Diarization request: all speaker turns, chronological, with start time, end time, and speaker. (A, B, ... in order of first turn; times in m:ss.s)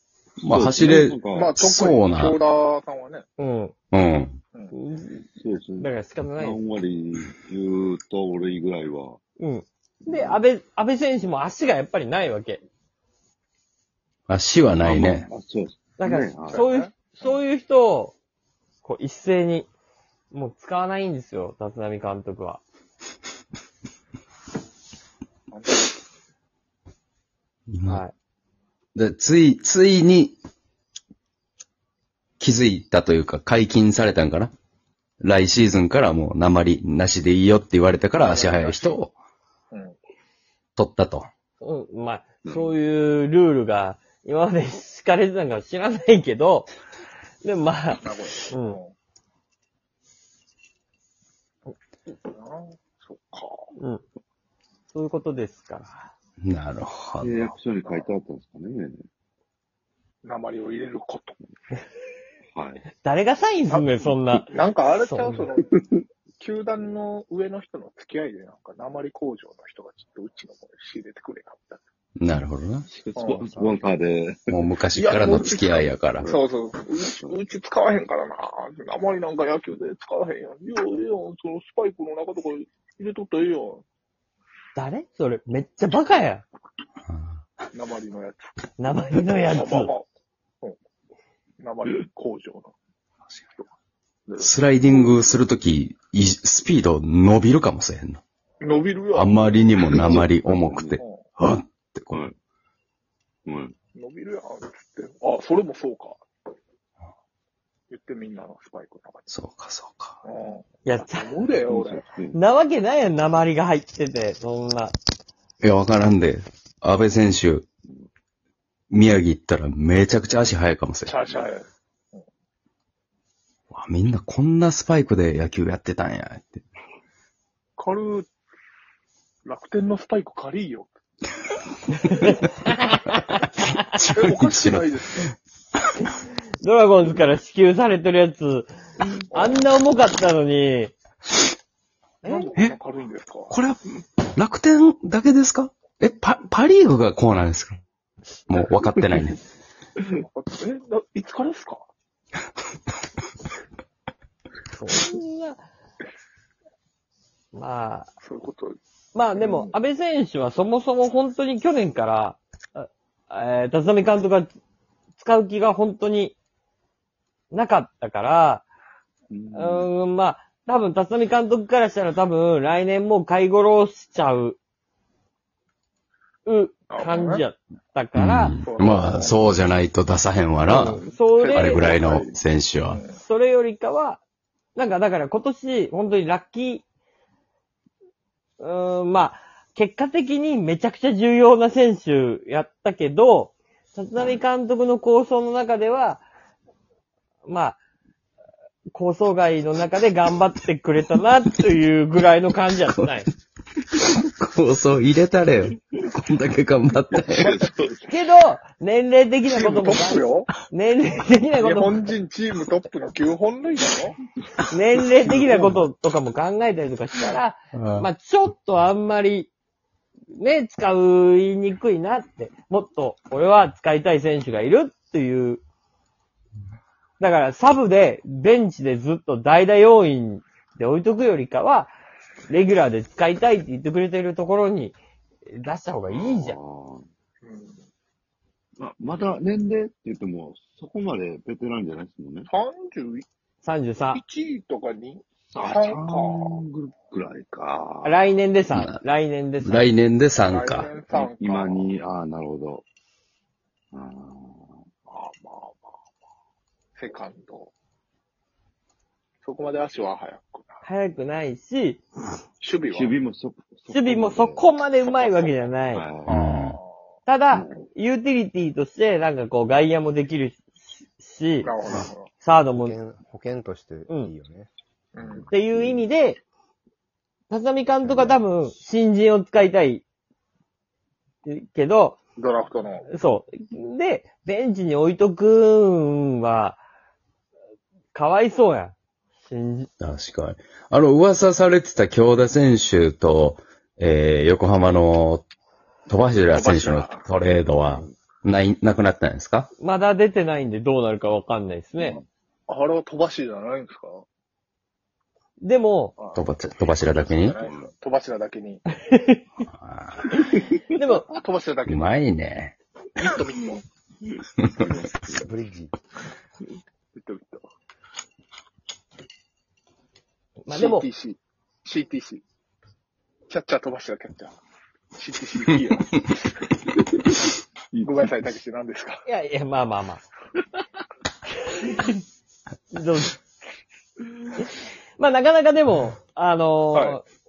0:00.4-0:01.5 A
0:00.4-0:02.4 B
0:01.3-0:03.2 C
0:03.4-0:03.7 D
0:03.9-0:04.4 B
0:04.7-0:05.2 D
0:05.3-0:09.2 A
0:05.8-0:06.6 D
0:09.4-0:12.6 D
0:10.0-0:10.4 A
0:14.3-0:15.3 B
0:14.8-0:16.6 A
0:16.0-0:18.1 D
0:16.4-0:16.9 C
0:18.8-0:19.7 D
0:20.3-0:22.6 D
0:25.5-0:25.9 C
0:27.7-0:28.0 B
0:27.8-0:28.1 D
0:28.9-0:30.4 B
0:32.4-0:34.5 B
0:35.2-0:39.1 B
0:38.2-0:39.0 C
0:40.8-0:41.3 B
0:41.6-0:46.7 D
0:42.4-0:42.8 A
0:47.4-0:48.8 D
0:48.0-0:48.9 C
0:52.3-0:53.6 C
0:53.8-0:54.0 D
0:54.9-0:56.1 D
0:56.4-0:57.4 B
0:57.2-0:59.0 A
0:57.7-0:58.1 C
1:00.2-1:01.4 C
1:02.5-1:02.8 A
1:03.0-1:05.4 D
1:03.7-1:05.8 C
1:06.4-1:11.8 C
1:12.2-1:12.9 B
1:12.9-1:14.5 A
1:13.1-1:13.8 C
1:14.5-1:16.3 B
1:14.9-1:23.8 C
1:17.0-1:17.4 A
1:24.7-1:26.4 D
1:27.1-1:27.4 B
1:27.7-1:28.5 C
1:28.8-1:29.9 D
1:29.5-1:30.0 C
1:31.6-1:32.7 C
1:34.3-1:35.1 C
1:34.4-1:38.2 B
1:38.6-1:40.2 C
1:39.1-1:42.2 B
1:39.9-1:41.0 A
1:41.0-1:41.2 C
1:43.4-1:43.7 A
1:43.9-1:46.2 C
1:47.9-1:49.3 C
1:49.3-1:50.2 B
1:50.2-1:52.1 C
1:50.8-1:51.3 D
1:51.6-1:52.4 A
1:52.3-1:54.9 D
1:55.6-1:57.6 B
1:58.9-2:01.1 B
2:01.0-2:02.2 C
2:03.7-2:06.6 B
2:07.8-2:08.3 C
2:09.4-2:10.9 C
2:11.9-2:13.8 D
2:13.9-2:14.9 B
2:14.1-2:15.3 C
2:16.6-2:18.7 D
2:19.3-2:19.6 C
2:19.3-2:20.9 D
2:22.2-2:22.5 D
2:22.2-2:23.5 C
2:23.5-2:23.8 B
2:24.3-2:27.8 B
2:28.5-2:29.4 B
2:30.1-2:31.8 C
2:34.7-2:35.6 D
2:37.5-2:38.1 D
2:38.2-2:38.8 C
2:39.1-2:44.5 D
2:39.4-2:39.7 C
2:45.2-2:46.3 D
2:47.5-2:48.6 D
2:49.3-2:49.9 A
2:49.5-2:54.6 D
2:56.4-2:58.5 D
2:56.9-2:57.4 C
2:58.1-3:01.0 B
2:58.6-2:59.4 C
3:00.6-3:02.4 A
3:00.7-3:01.9 D
3:01.4-3:01.7 C
3:01.5-3:03.0 B
3:02.9-3:03.2 C
3:03.2-3:04.2 D
3:04.8-3:06.8 D
3:08.6-3:16.2 D
3:17.4-3:17.8 D
3:18.9-3:23.3 D
3:23.9-3:27.6 B
3:27.1-3:28.1 A
3:27.3-3:27.8 C
3:28.0-3:32.0 D
3:29.5-3:30.5 C
3:31.6-3:34.2 C
3:34.7-3:39.5 D
3:37.7-3:38.1 B
3:40.3-3:45.6 D
3:47.2-3:51.9 D
3:52.5-3:56.6 D
3:56.1-3:57.0 A
3:57.4-3:57.8 C
3:58.8-4:02.5 A
4:02.5-4:03.2 C
4:03.6-4:04.2 D
4:04.1-4:06.6 C
4:05.5-4:08.2 A
4:08.0-4:09.9 D
4:08.7-4:09.0 B
4:09.6-4:10.9 B
4:10.4-4:11.9 C
4:11.1-4:12.8 A
4:13.9-4:14.7 A
4:15.1-4:15.9 C
4:17.0-4:17.7 C
4:19.4-4:20.8 C
4:20.8-4:22.0 D
4:22.6-4:23.1 C
4:22.9-4:24.6 A
4:23.9-4:26.0 D
4:25.9-4:26.4 A
4:26.3-4:26.9 C
4:26.3-4:26.8 B
4:27.3-4:31.7 D
4:27.5-4:27.8 A
4:31.6-4:32.3 C
4:32.4-4:33.0 D
4:32.8-4:34.7 E
4:34.1-4:34.3 D
4:35.1-4:35.5 C
4:35.5-4:36.4 D
4:37.5-4:40.0 D
4:38.0-4:38.4 E
4:41.4-4:42.2 D
4:42.4-4:43.1 C
4:43.1-4:46.8 D
4:48.1-4:49.9 D
4:50.0-4:55.4 B
4:56.1-4:59.7 B
4:56.5-4:57.2 C
4:57.8-4:58.1 A
4:59.8-5:02.2 D
5:02.7-5:04.2 C
5:05.6-5:06.1 D
5:06.2-5:08.8 C
5:06.3-5:07.6 B
5:07.6-5:07.9 A
5:09.0-5:09.4 D
5:09.6-5:10.4 B
5:10.9-5:11.3 D
5:11.3-5:12.1 C
5:11.9-5:12.7 B
5:13.2-5:13.8 C
5:14.3-5:15.5 A
5:15.4-5:15.9 E
5:17.1-5:17.6 C
5:20.6-5:21.1 D
5:20.7-5:22.4 C
5:23.5-5:24.6 C
5:25.2-5:26.7 C
5:27.9-5:28.5 A
5:28.0-5:29.2 C
5:29.2-5:30.2 D
5:31.7-5:32.2 D
5:32.9-5:33.3 D
5:35.2-5:37.2 D
5:36.9-5:37.2 C